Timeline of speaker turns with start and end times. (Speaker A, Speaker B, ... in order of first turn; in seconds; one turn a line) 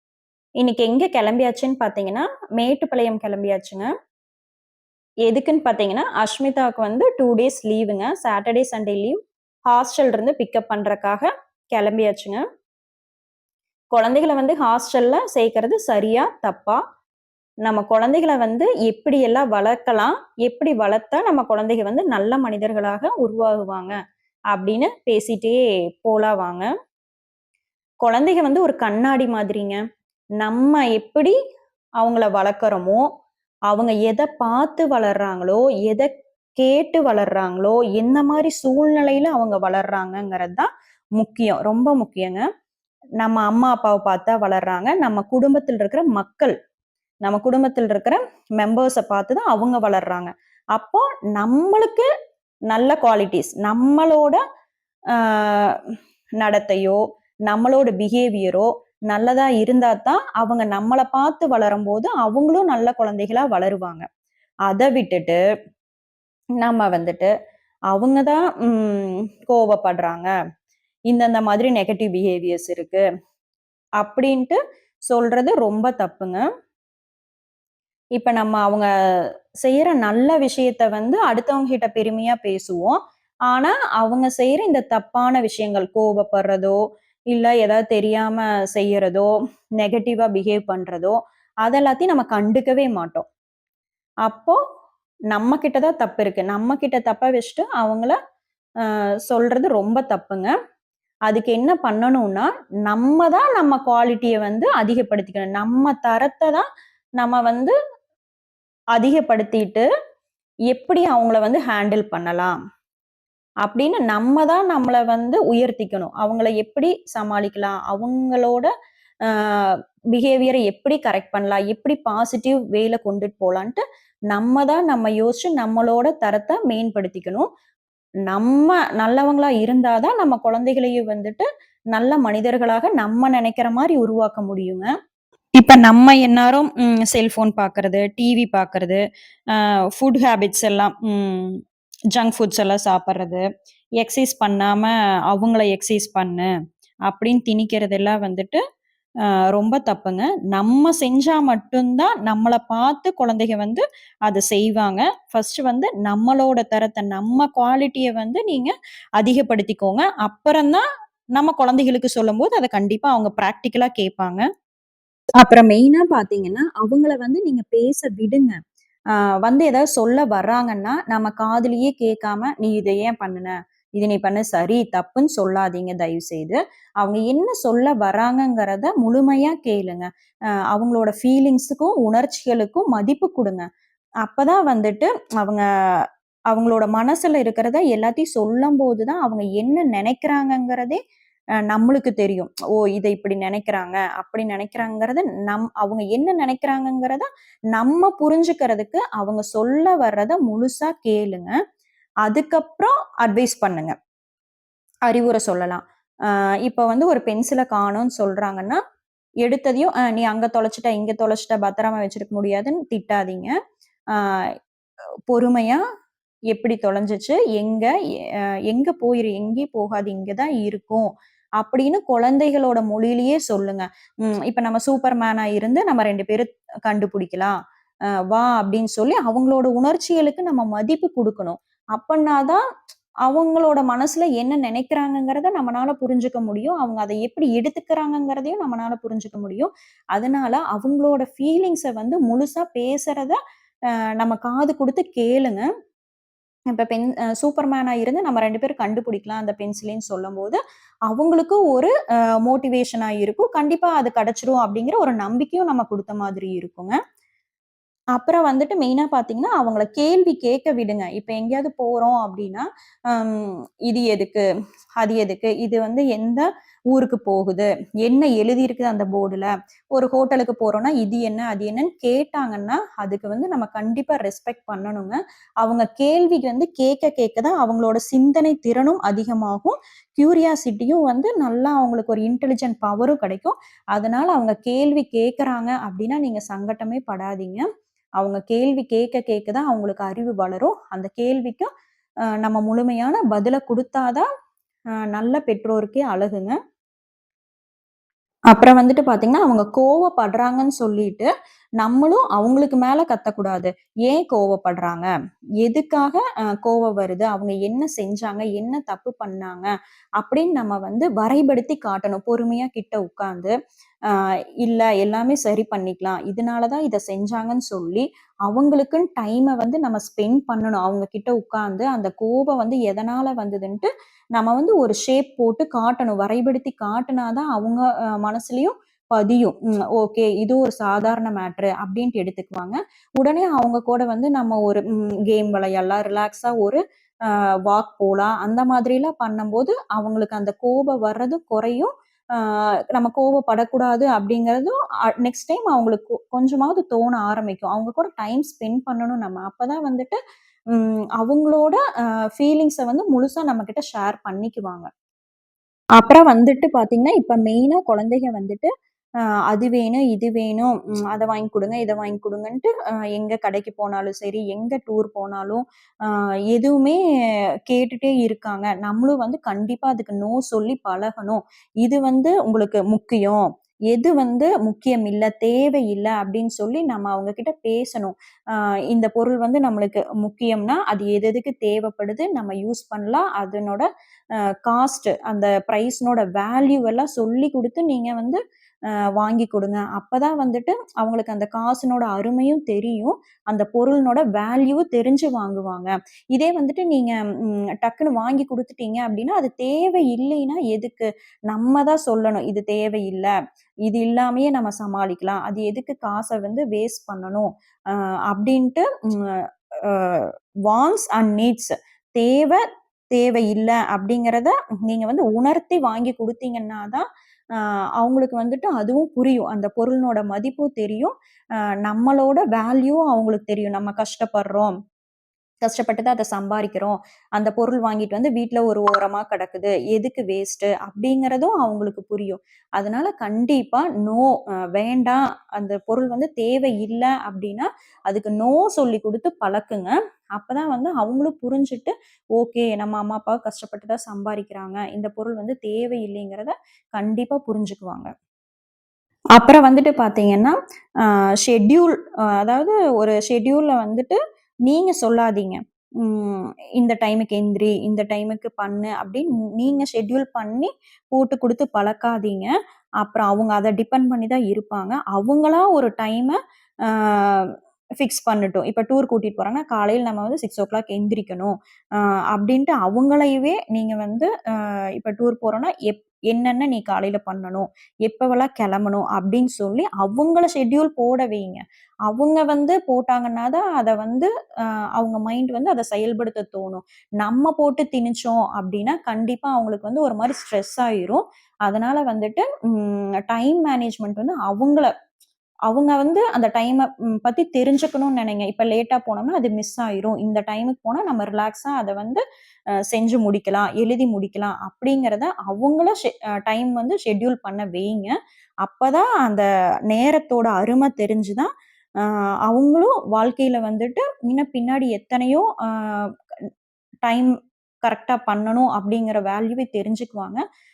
Speaker A: 0.6-3.9
Speaker A: 5.2-9.2
Speaker A: 9.7-12.4
Speaker A: 13.9-16.8
Speaker A: 17.6-23.9
Speaker A: 24.5-26.7
Speaker A: 28.0-29.8
Speaker A: 30.4-31.3
Speaker A: 32.0-33.0
Speaker A: 33.7-42.4
Speaker A: 43.2-46.5
Speaker A: 47.2-52.1
Speaker A: 52.7-54.4
Speaker A: 55.1-55.8
Speaker A: 56.4-64.1
Speaker A: 64.7-65.4
Speaker A: 66.6-67.3
Speaker A: 67.9-70.3
Speaker A: 71.1-73.0
Speaker A: 74.0-74.6
Speaker A: 75.1-76.4
Speaker A: 78.2-78.9
Speaker A: 79.6-83.0
Speaker A: 83.5-86.8
Speaker A: 87.3-89.3
Speaker A: 89.8-93.2
Speaker A: 94.2-94.6
Speaker A: 95.3-98.2
Speaker A: 98.8-100.5
Speaker A: 101.3-106.6
Speaker A: 107.2-107.7
Speaker A: 108.9-109.9
Speaker A: 110.7-112.5
Speaker A: 113.6-118.7
Speaker A: 119.3-127.5
Speaker A: 128.3-134.9
Speaker A: 135.6-139.0
Speaker A: 139.5-141.6
Speaker A: 142.1-143.4
Speaker A: 144.0-146.5
Speaker A: 147.1-148.6
Speaker A: 149.5-160.8
Speaker A: 161.3-164.4
Speaker A: 165.4-168.6
Speaker A: 169.2-180.1
Speaker A: 180.7-183.7
Speaker A: 184.2-185.6
Speaker A: 186.5-191.0
Speaker A: 191.7-201.5
Speaker A: 202.2-203.9
Speaker A: 205.1-208.8
Speaker A: 209.4-213.5
Speaker A: 214.1-214.5
Speaker A: 215.3-215.8
Speaker A: 216.5-217.9
Speaker A: 218.7-221.1
Speaker A: 221.6-227.5
Speaker A: 228.3-232.6
Speaker A: 233.2-243.4
Speaker A: 244.2-245.7
Speaker A: 246.7-251.9
Speaker A: 252.4-257.0
Speaker A: 258.1-264.4
Speaker A: 265.0-287.6
Speaker A: 288.2-291.7
Speaker A: 292.4-294.2
Speaker A: 295.1-296.6
Speaker A: 298.5-301.3
Speaker A: 301.8-305.1
Speaker A: 305.6-309.7
Speaker A: 310.2-313.5
Speaker A: 314.1-350.2
Speaker A: 350.7-351.8
Speaker A: 352.4-354.9
Speaker A: 356.0-358.7
Speaker A: 359.5-367.0
Speaker A: 367.7-383.9
Speaker A: 384.6-388.4
Speaker A: 389.2-403.3
Speaker A: 403.9-417.0
Speaker A: 417.6-421.1
Speaker A: 421.8-424.7
Speaker A: 425.6-448.1
Speaker A: 449.4-467.5
Speaker A: 468.0-484.3
Speaker A: 484.9-494.9
Speaker A: 495.7-502.2
Speaker A: 502.9-511.5
Speaker A: 512.0-516.1
Speaker A: 517.0-517.3
Speaker A: 517.8-520.4